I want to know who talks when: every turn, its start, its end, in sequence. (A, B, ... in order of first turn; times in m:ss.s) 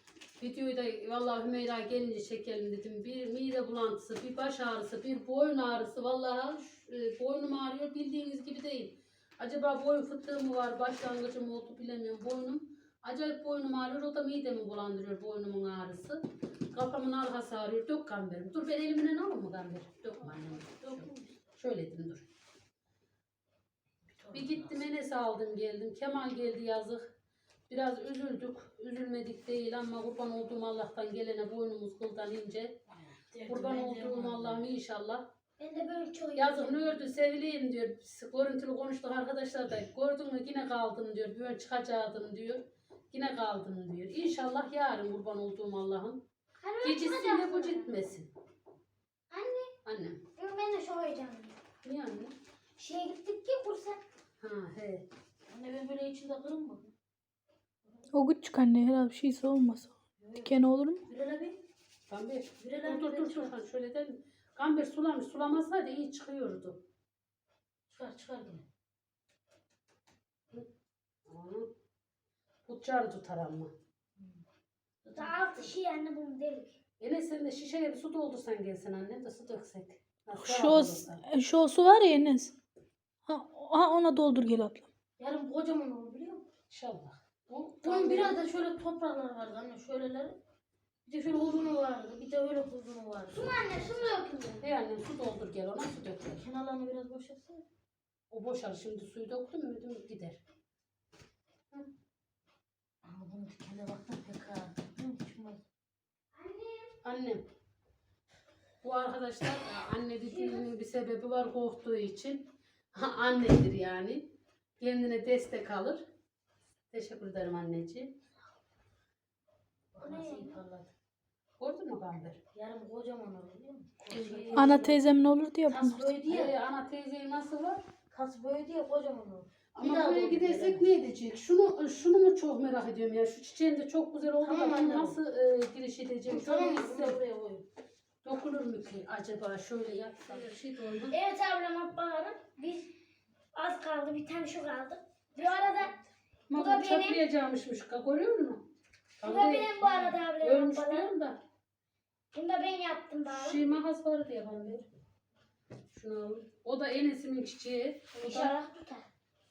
0:00.4-0:16.2 A
0:16.7-0:22.3 A
0:20.5-0:21.3 B
0:24.1-0:24.9 B
0:24.3-0:27.1 A
0:27.7-0:32.8 A
0:32.9-0:34.6 B
0:33.5-0:35.3 A
0:35.6-0:37.1 C
0:36.4-0:46.2 A
0:46.6-0:47.9 C
0:46.8-0:48.3 A
0:49.3-0:49.7 C
0:49.8-0:50.2 A
0:50.4-0:51.6 C
0:51.8-0:52.3 A
0:52.8-0:54.0 C
0:54.4-0:55.0 A
0:55.5-0:56.9 B
0:58.1-1:01.0 D
1:00.2-1:01.6 B
1:02.1-1:06.8 A
1:02.6-1:03.6 B
1:07.9-1:08.7 B
1:11.3-1:11.7 A
1:12.7-1:13.7 A
1:14.2-1:14.4 B
1:15.0-1:15.7 B
1:15.2-1:16.8 C
1:17.0-1:21.2 A
1:20.4-1:22.5 D
1:23.3-1:24.9 D
1:25.2-1:26.5 B
1:26.7-1:28.4 A
1:27.8-1:30.4 B
1:31.1-1:34.1 B
1:33.3-1:34.6 C
1:34.6-1:36.4 A
1:36.4-1:37.6 B
1:38.3-1:40.4 A
1:43.0-1:45.6 B
1:46.3-1:47.0 C
1:47.0-1:47.4 A
1:48.8-1:54.2 A
1:50.3-1:50.6 C
1:54.8-1:56.0 A
1:56.9-1:58.1 A
1:59.9-2:00.9 B
2:00.0-2:00.6 C
2:01.6-2:02.4 A
2:02.5-2:04.8 B
2:04.1-2:05.0 A
2:04.5-2:06.2 D
2:05.7-2:06.5 B
2:06.3-2:07.8 A
2:08.1-2:10.9 B
2:09.8-2:17.2 A
2:14.4-2:15.2 B
2:16.3-2:17.6 B
2:18.2-2:21.2 A
2:21.1-2:22.9 C
2:23.5-2:25.9 C
2:25.4-2:28.6 A
2:26.5-2:27.2 C
2:29.2-2:31.4 A
2:29.2-2:31.1 C
2:32.3-2:33.6 C
2:33.3-2:34.9 A
2:35.9-2:38.5 A
2:38.2-2:39.1 C